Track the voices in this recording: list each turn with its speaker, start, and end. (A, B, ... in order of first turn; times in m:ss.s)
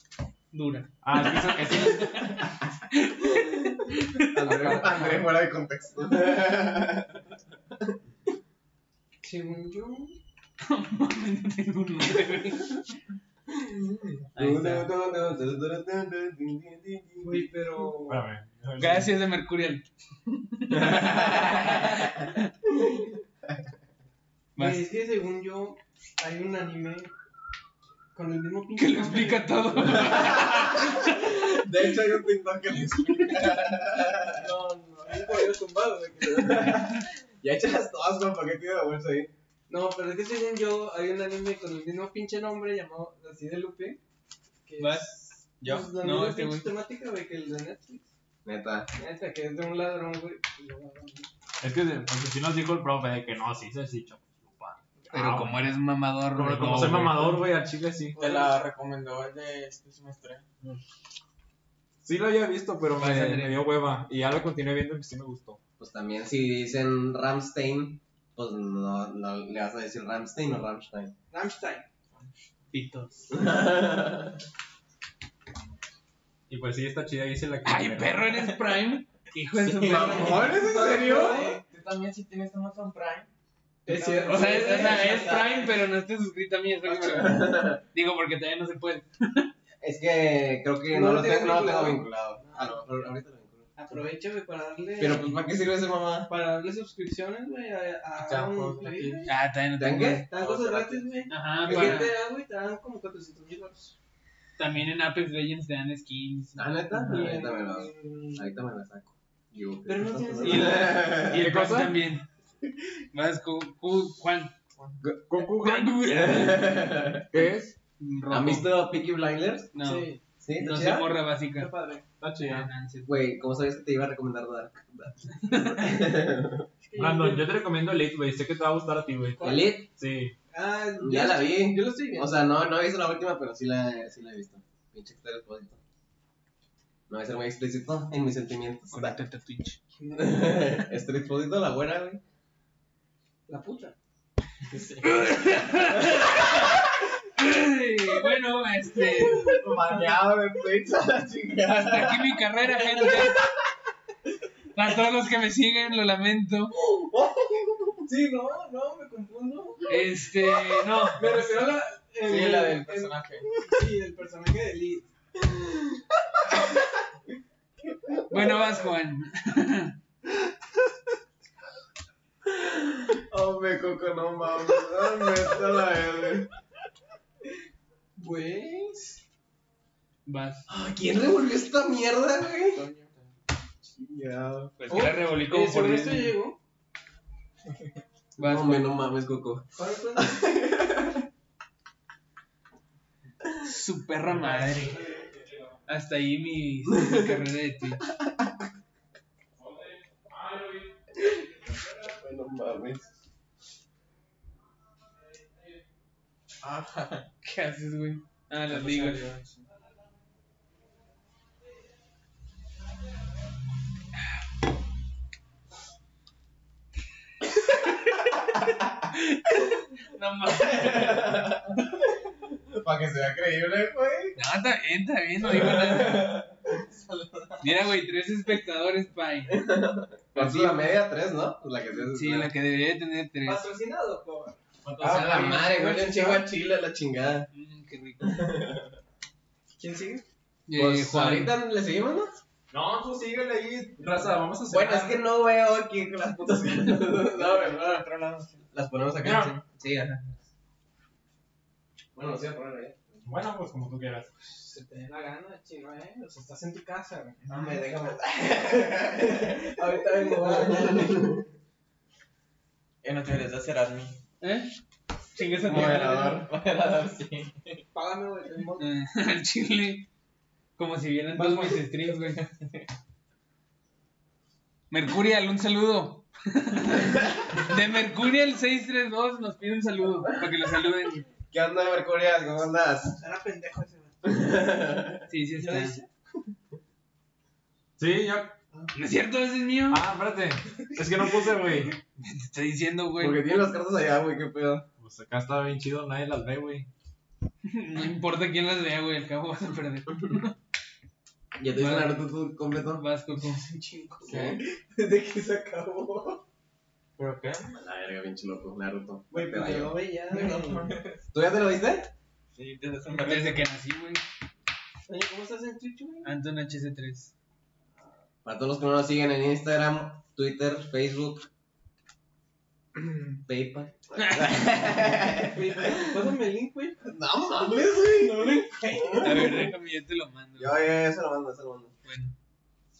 0:00.5-0:05.2 A
0:01.0-0:02.2 B
0:04.3-0:07.2 C
0:09.2-0:10.2 D
0:10.6-0:12.8 A
0:13.5-0:17.5 C
0:14.3-0:14.9 A
0:17.2-0:18.2 D
0:18.0-0:19.1 B
0:18.8-0:19.8 A
0:20.6-0:22.5 A
0:20.7-0:22.3 C
0:24.6-0:24.9 A
0:24.6-0:27.1 D
0:28.1-0:29.6 D
0:28.8-0:31.4 A
0:29.9-0:34.5 C
0:34.3-0:36.8 D
0:35.1-0:35.5 C
0:36.2-0:39.3 C
0:39.7-0:44.0 D
0:44.6-0:48.0 D
0:44.8-0:45.1 A
0:45.6-0:45.9 B
0:46.0-0:46.7 A
0:48.4-0:48.9 C
0:49.0-0:51.3 D
0:51.6-0:55.6 B
0:55.1-0:57.4 A
0:56.3-0:58.2 B
0:58.1-1:00.5 E
1:02.0-1:05.6 B
1:03.0-1:03.7 A
1:05.8-1:11.1 C
1:11.3-1:11.9 D
1:12.1-1:12.5 E
1:12.7-1:13.3 A
1:13.3-1:14.4 C
1:16.5-1:18.3 B
1:17.6-1:20.7 A
1:19.6-1:21.5 C
1:19.8-1:21.6 D
1:20.7-1:23.3 E
1:23.8-1:25.5 E
1:23.8-1:25.7 D
1:24.3-1:29.5 A
1:26.9-1:27.8 C
1:29.8-1:33.7 C
1:30.9-1:33.0 D
1:33.8-1:35.4 D
1:35.0-1:36.3 C
1:36.3-1:39.3 D
1:38.2-1:39.3 E
1:39.2-1:40.3 A
1:39.7-1:42.2 C
1:40.3-1:43.9 D
1:41.3-1:42.2 A
1:44.6-1:47.4 A
1:46.6-1:51.4 C
1:46.9-1:48.4 D
1:49.8-1:51.1 D
1:50.4-1:52.3 A
1:51.2-1:52.0 B
1:53.1-1:54.5 A
1:55.0-1:55.3 C
1:55.2-1:56.3 B
1:55.6-1:56.8 A
1:56.0-1:57.3 C
1:57.3-1:57.7 B
1:58.0-1:58.7 A
1:58.3-1:59.7 C
1:59.7-2:01.7 A
1:59.8-2:00.2 D
2:00.4-2:01.2 C
2:01.5-2:02.0 D
2:02.2-2:02.7 B
2:02.4-2:03.1 A
2:03.0-2:06.7 C
2:05.4-2:06.0 A
2:06.8-2:07.5 D
2:07.0-2:10.3 B
2:09.4-2:09.8 D
2:09.4-2:09.9 C
2:10.5-2:12.5 D
2:11.0-2:15.8 C
2:17.1-2:19.2 C
2:18.9-2:19.8 A
2:20.0-2:20.5 D
2:20.1-2:22.2 C
2:23.5-2:24.0 D
2:24.7-2:25.8 E
2:25.0-2:26.8 A
2:27.4-2:29.6 A
2:29.2-2:29.8 D
2:29.4-2:32.4 C
2:31.8-2:33.4 A
2:34.7-2:36.8 A
2:36.8-2:37.3 D
2:38.0-2:40.3 D
2:39.9-2:41.7 A
2:40.9-2:45.1 D
2:42.2-2:43.5 E
2:45.5-2:46.0 C
2:48.0-2:48.6 C
2:48.3-2:50.0 A
2:52.4-2:56.5 C
2:58.2-2:59.2 D
3:00.2-3:00.6 A
3:00.7-3:02.9 C
3:03.9-3:05.1 C
3:04.8-3:06.4 A
3:04.9-3:06.6 D
3:08.4-3:11.2 C
3:08.4-3:09.0 A
3:09.8-3:10.4 D
3:13.6-3:15.0 A
3:14.3-3:15.7 B
3:15.9-3:18.0 A
3:19.6-3:21.0 B
3:21.2-3:23.1 C
3:26.6-3:27.3 E
3:27.4-3:29.3 A
3:28.7-3:29.6 E
3:39.1-3:41.5 A
3:40.5-3:44.4 C
3:44.4-3:46.4 A
3:45.4-3:46.6 C
3:46.8-3:47.7 E
3:47.6-3:49.7 A
3:49.5-3:52.5 C
3:50.3-3:51.0 A
3:52.0-3:53.6 A
3:53.4-3:54.6 D
3:54.8-3:55.6 B
3:55.0-3:57.5 C
3:55.3-3:56.5 D
3:57.5-3:58.5 A
3:58.2-3:58.9 C
3:59.8-4:00.2 D
4:00.7-4:01.5 A
4:00.7-4:02.3 C
4:02.7-4:05.3 B
4:04.7-4:08.0 C
4:07.3-4:08.7 E
4:08.7-4:10.3 C
4:09.2-4:09.5 B
4:12.1-4:13.3 C
4:13.2-4:14.3 B
4:14.4-4:17.4 D
4:17.5-4:21.4 C
4:19.3-4:21.4 D
4:23.0-4:24.2 E
4:24.4-4:24.7 A
4:25.3-4:26.4 A
4:25.6-4:26.6 C
4:26.0-4:27.8 E
4:27.9-4:28.9 D
4:28.8-4:30.1 A
4:30.8-4:32.4 A
4:31.4-4:31.7 D
4:32.3-4:32.8 E
4:34.9-4:41.2 A
4:41.5-4:43.2 C
4:43.2-4:44.1 D
4:44.2-4:45.3 C
4:45.3-4:46.0 A
4:45.6-4:46.1 D
4:48.0-4:48.6 B
4:48.9-4:50.0 A
4:49.9-4:51.9 B
4:52.2-4:53.4 A
4:53.2-4:54.9 C
4:55.0-4:56.9 B
4:57.6-5:00.5 A
5:01.5-5:03.0 C
5:01.7-5:02.2 A
5:02.9-5:03.6 A
5:03.4-5:06.4 D
5:04.3-5:04.6 C
5:04.3-5:04.6 E
5:07.2-5:07.8 E
5:07.7-5:10.0 C
5:09.3-5:11.0 D
5:10.3-5:11.2 E
5:11.3-5:12.1 C
5:12.5-5:13.7 E
5:13.2-5:14.2 A
5:15.1-5:16.3 D
5:16.2-5:17.3 A
5:18.4-5:21.5 C
5:23.1-5:26.2 C
5:24.1-5:24.7 A
5:25.4-5:27.0 D
5:27.0-5:29.6 C
5:29.2-5:30.8 A
5:30.6-5:31.9 C
5:32.0-5:32.3 A